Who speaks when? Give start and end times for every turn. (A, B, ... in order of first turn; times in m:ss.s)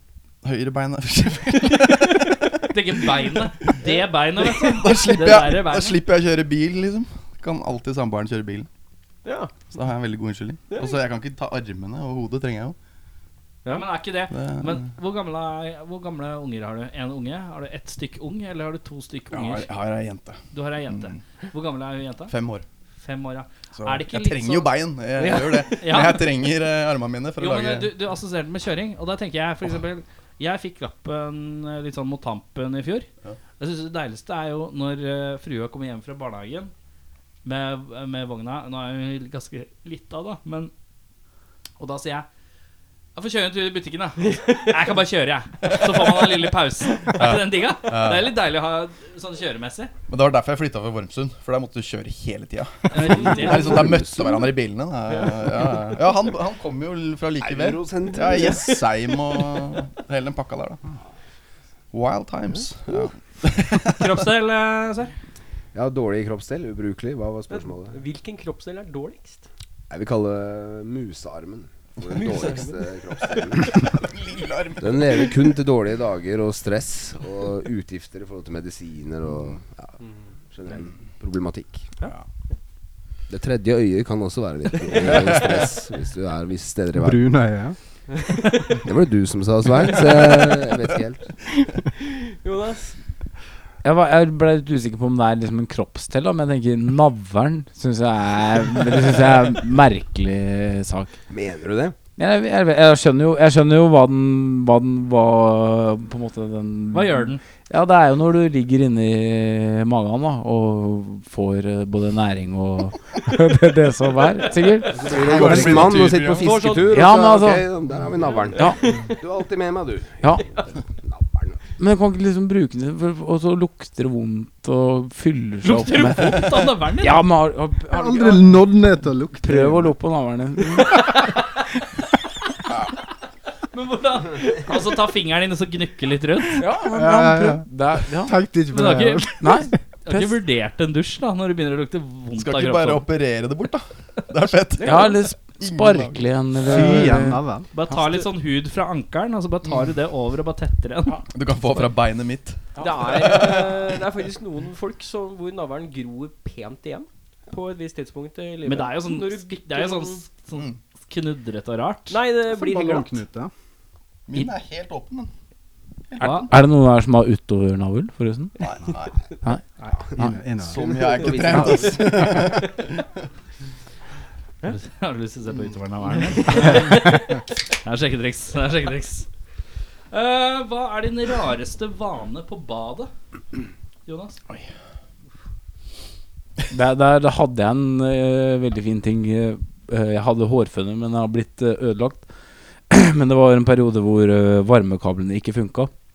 0:00.4-0:03.0 A
0:02.7-0:06.0 B
0:04.6-0:08.7 A
0:09.2-0:09.5 C
0:09.7-0:12.8 A
0:10.7-0:11.0 C
0:13.7-0:19.7 B
0:14.3-0:14.8 A
0:19.3-0:21.2 A
0:20.5-0:22.3 B
0:22.3-0:22.6 A
0:23.0-0:26.2 B
0:23.8-0:27.9 A
0:25.2-0:25.7 C
0:27.4-0:33.1 B
0:33.6-0:36.7 B
0:37.4-0:40.7 B
0:41.8-0:42.3 B
0:43.2-0:49.9 B
0:44.3-0:44.7 C
0:47.2-0:48.3 A
0:50.1-1:00.8 A
0:52.9-0:54.0 B
0:53.0-0:54.4 D
0:57.4-0:58.8 D
1:01.9-1:04.2 A
1:03.9-1:05.1 B
1:05.7-1:08.0 D
1:07.5-1:09.5 C
1:09.9-1:13.9 D
1:12.3-1:12.7 C
1:13.8-1:15.3 A
1:14.8-1:19.9 D
1:20.5-1:21.9 D
1:23.3-1:27.3 D
1:26.9-1:27.8 E
1:28.8-1:31.3 D
1:32.1-1:33.0 C
1:33.8-1:41.1 F
1:41.3-1:42.0 D
1:42.2-1:55.7 F
1:46.9-1:47.4 B
1:54.9-2:01.6 D
1:55.1-1:56.8 A
1:56.4-1:56.8 C
1:56.9-1:57.6 F
1:58.5-1:58.9 F
1:58.6-1:59.0 C
2:01.8-2:08.5 F
2:05.6-2:07.2 B
2:07.9-2:10.0 E
2:09.4-2:11.3 F
2:13.7-2:16.6 B
2:16.5-2:18.4 F
2:16.9-2:19.7 E
2:18.7-2:19.4 B
2:19.4-2:20.4 F
2:20.0-2:23.0 B
2:22.3-2:26.4 A
2:24.8-2:25.2 C
2:24.8-2:27.4 F
2:26.6-2:27.7 E
2:27.7-2:31.2 B
2:31.2-2:33.8 A
2:32.8-2:40.2 C
2:38.6-2:42.2 B
2:42.1-2:43.2 C
2:42.5-2:43.5 E
2:44.3-2:45.3 A
2:46.1-2:46.6 A
2:46.2-2:46.5 B
2:46.4-2:48.6 F
2:48.6-2:49.2 A
2:49.9-2:52.6 D
2:50.2-2:50.8 E
2:50.7-2:53.0 A
2:54.7-2:59.3 B
3:00.1-3:03.1 B
3:04.0-3:04.4 B
3:06.7-3:12.2 F
3:12.9-3:15.9 F